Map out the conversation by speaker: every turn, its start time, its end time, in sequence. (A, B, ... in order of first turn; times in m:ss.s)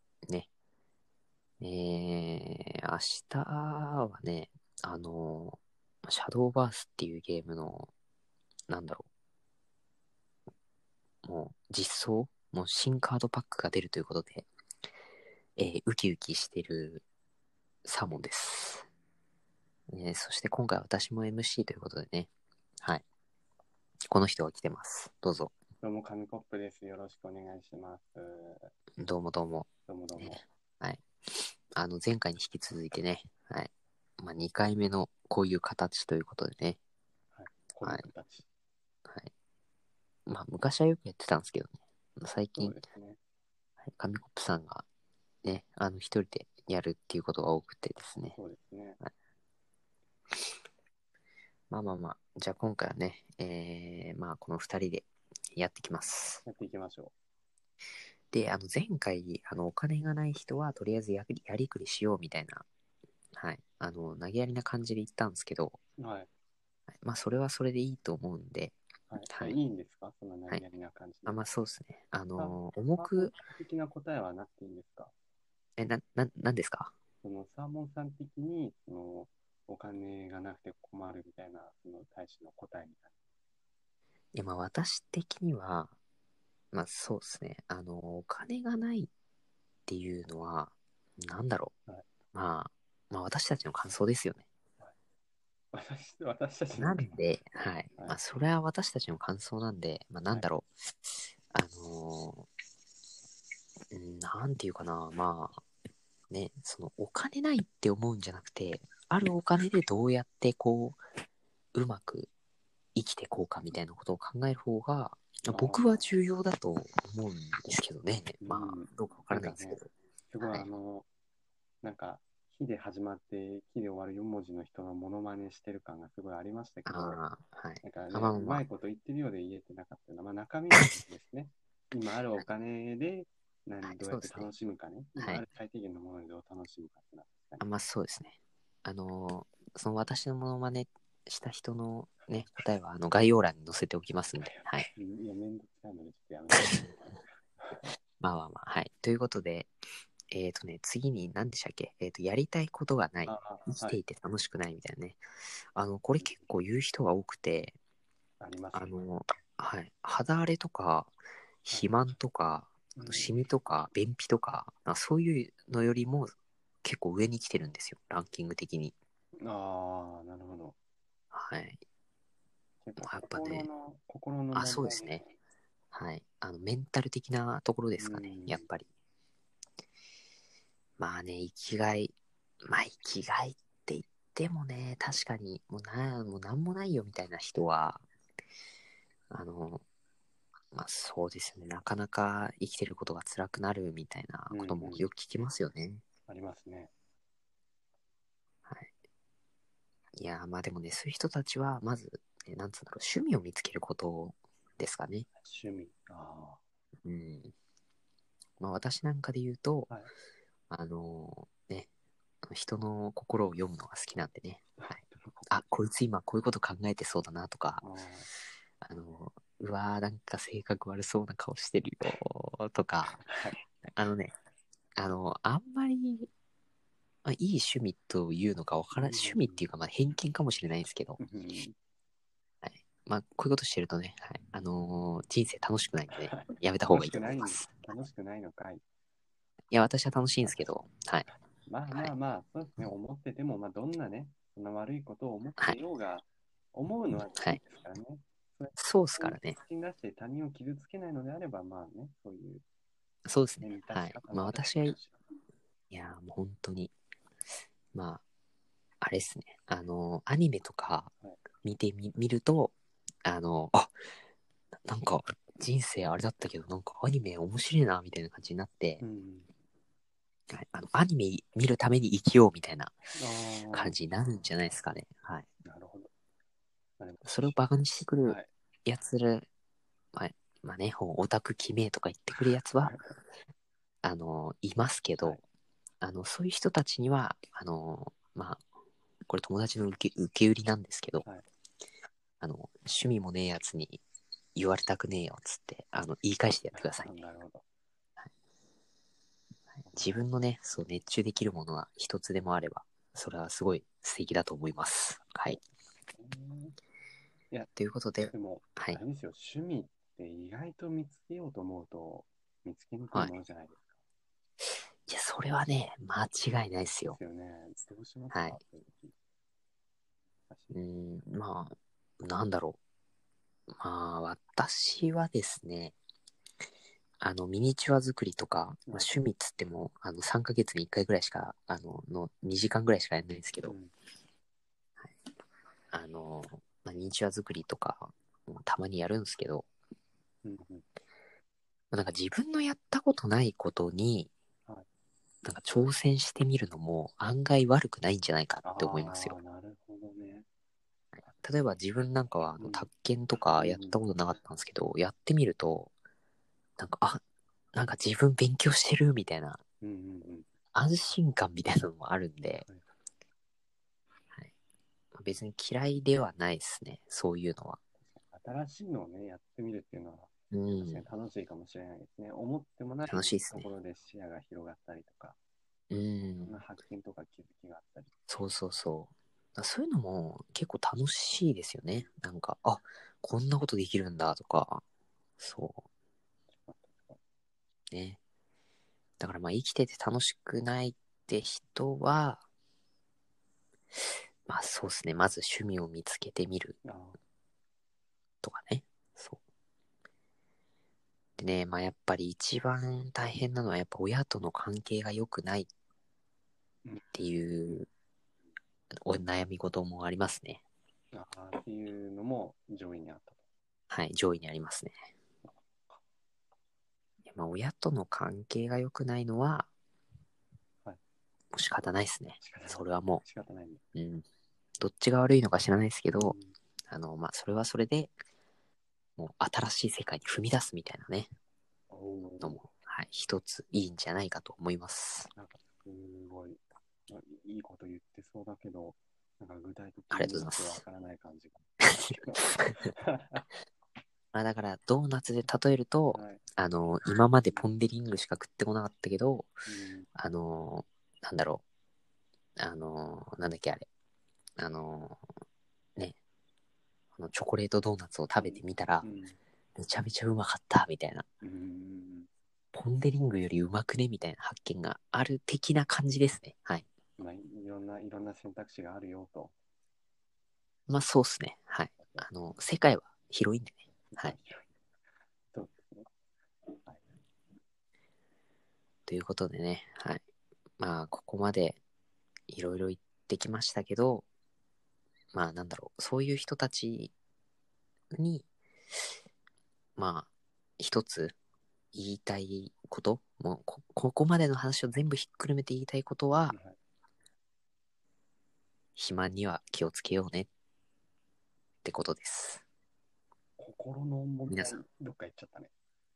0:01.6-0:07.9 A
0:08.7-0:09.1 A
0:11.2-0:14.5 A
0:15.6-0:17.0 A
0:17.8-0:18.9 A
0:19.9-0:22.3 A
0:24.1-0:25.5 A
0:25.8-0:28.7 B
0:29.0-0:36.8 A
0:29.9-0:30.4 B
0:37.3-0:38.5 B
0:40.3-0:42.8 A
0:42.6-0:43.2 B
0:43.9-0:44.9 A
0:45.4-0:48.4 A
0:48.3-0:49.0 B
0:51.7-0:56.4 A
0:56.4-0:57.1 B
0:58.3-1:02.7 A
1:03.3-1:05.8 A
1:06.0-1:06.3 B
1:07.0-1:09.6 A
1:09.1-1:11.4 B
1:11.3-1:13.3 A
1:12.4-1:15.1 B
1:15.8-1:16.9 A
1:17.2-1:23.1 B
1:24.3-1:25.9 A
1:26.7-1:29.1 A
1:29.9-1:31.7 A
1:32.3-1:34.4 A
1:35.7-1:37.2 B
1:36.8-1:42.5 A
1:43.9-1:45.6 A
1:46.3-1:51.0 A
1:51.7-1:52.3 A
1:53.0-1:59.9 A
1:55.5-1:56.0 B
1:58.4-2:01.1 B
2:00.4-2:00.7 A
2:01.8-2:07.2 B
2:06.9-2:08.6 A
2:07.8-2:17.6 B
2:13.8-2:14.5 A
2:15.2-2:15.4 A
2:17.6-2:24.9 A
2:22.3-2:22.7 B
2:24.4-2:27.9 B
2:28.2-2:29.7 A
2:30.3-2:35.2 A
2:33.2-2:34.0 B
2:35.8-2:37.8 A
2:38.4-2:39.0 B
2:38.7-2:49.0 A
2:41.7-2:41.9 B
2:43.0-2:43.4 B
2:49.4-2:50.8 B
2:51.3-2:51.8 A
2:52.8-2:55.4 B
2:53.0-2:53.7 A
2:54.5-2:55.2 A
2:55.9-2:58.9 A
2:58.0-2:58.7 B
3:01.0-3:08.0 A
3:09.3-3:09.8 A
3:10.7-3:16.0 A
3:14.5-3:15.1 B
3:16.3-3:16.9 B
3:20.2-3:25.3 A
3:25.4-3:26.6 B
3:27.0-3:27.5 A
3:28.6-3:29.9 A
3:30.7-3:31.9 A
3:32.4-3:37.8 A
3:34.8-3:35.6 B
3:37.8-3:38.3 B
3:38.8-3:43.3 A
3:43.1-3:43.6 B
3:43.9-3:44.3 A
3:45.0-3:46.3 A
3:47.2-3:51.2 A
3:49.0-3:49.7 B
3:51.2-3:51.7 B
3:52.6-3:58.0 A
3:56.2-3:58.8 B
3:59.7-4:01.3 A
4:00.4-4:00.7 B
4:01.7-4:12.6 B
4:08.8-4:09.6 A
4:13.3-4:15.0 A
4:13.6-4:15.2 B
4:15.9-4:16.9 A
4:17.9-4:18.2 A
4:19.0-4:21.1 A
4:21.6-4:22.7 A
4:23.2-4:23.9 A
4:24.9-4:29.0 A
4:29.0-4:29.5 B
4:30.5-4:33.0 A
4:33.2-4:34.0 B
4:33.7-4:35.5 A
4:35.6-4:36.1 B
4:37.0-4:37.6 B
4:37.2-4:39.5 A
4:40.1-4:43.0 A
4:42.8-4:43.2 B
4:44.0-4:45.4 A
4:46.0-4:48.6 A
4:49.3-4:51.3 A
4:52.4-4:54.0 A
4:54.6-4:57.1 A
4:56.7-4:57.6 B
4:59.9-5:00.2 B
4:59.9-5:05.6 A
5:06.2-5:06.8 B
5:07.5-5:13.9 B
5:07.8-5:09.0 A
5:15.1-5:17.2 A
5:17.1-5:19.2 B
5:18.3-5:18.6 A
5:20.5-5:20.8 B
5:20.7-5:22.8 A
5:23.7-5:26.0 A
5:27.2-5:33.8 A
5:28.9-5:29.2 B
5:33.6-5:33.9 B
5:35.9-5:39.7 A
5:40.4-5:40.8 B
5:41.9-5:44.3 A
5:45.4-5:49.4 A
5:48.6-5:50.5 B
5:51.2-5:55.9 A
5:52.6-5:52.9 B
5:53.6-5:54.0 B
5:56.8-5:57.2 A
5:57.7-5:59.6 A
5:59.8-6:00.5 B
6:00.7-6:02.7 A
6:05.1-6:07.8 A
6:08.0-6:15.4 B
6:10.5-6:11.1 A
6:13.1-6:13.7 A
6:15.9-6:16.6 A
6:16.4-6:18.1 B
6:18.3-6:24.8 A
6:25.4-6:25.8 A
6:26.5-6:27.2 B
6:27.9-6:28.2 A
6:29.2-6:32.4 A
6:34.5-6:36.8 A
6:36.8-6:37.2 B
6:38.4-6:39.4 A
6:41.4-6:45.7 A
6:46.8-6:47.1 B
6:47.1-6:47.9 A
6:49.0-6:50.6 A
6:51.1-6:53.4 B
6:53.9-6:55.0 A
6:55.4-6:56.0 B
6:57.3-6:59.7 A
7:01.5-7:03.2 A
7:02.4-7:03.8 B
7:04.0-7:04.2 A
7:04.8-7:06.4 A
7:06.1-7:06.6 B
7:06.9-7:08.1 A
7:09.2-7:11.3 A
7:11.9-7:12.6 B
7:12.4-7:15.3 A
7:15.4-7:23.5 B
7:20.1-7:20.8 A
7:21.8-7:22.9 A
7:24.3-7:29.6 A
7:26.1-7:26.4 B
7:29.7-7:30.1 B
7:30.2-7:31.6 A
7:32.6-7:33.9 A
7:34.6-7:35.2 A
7:37.2-7:39.1 A
7:38.4-7:39.4 B
7:39.8-7:41.2 A
7:41.4-7:42.3 B
7:42.7-7:46.9 A
7:47.2-7:49.6 B
7:50.9-7:54.4 A
7:52.0-7:52.3 B
7:54.1-7:54.7 B
7:55.5-7:56.1 B
7:59.1-8:00.2 A
8:00.8-8:01.8 A
8:02.5-8:04.3 A
8:05.3-8:07.1 A
8:08.1-8:08.5 A
8:10.0-8:11.4 A
8:11.9-8:16.6 A
8:16.5-8:16.8 B
8:19.0-8:20.5 A
8:21.8-8:22.6 A
8:23.6-8:25.7 B
8:24.5-8:24.8 A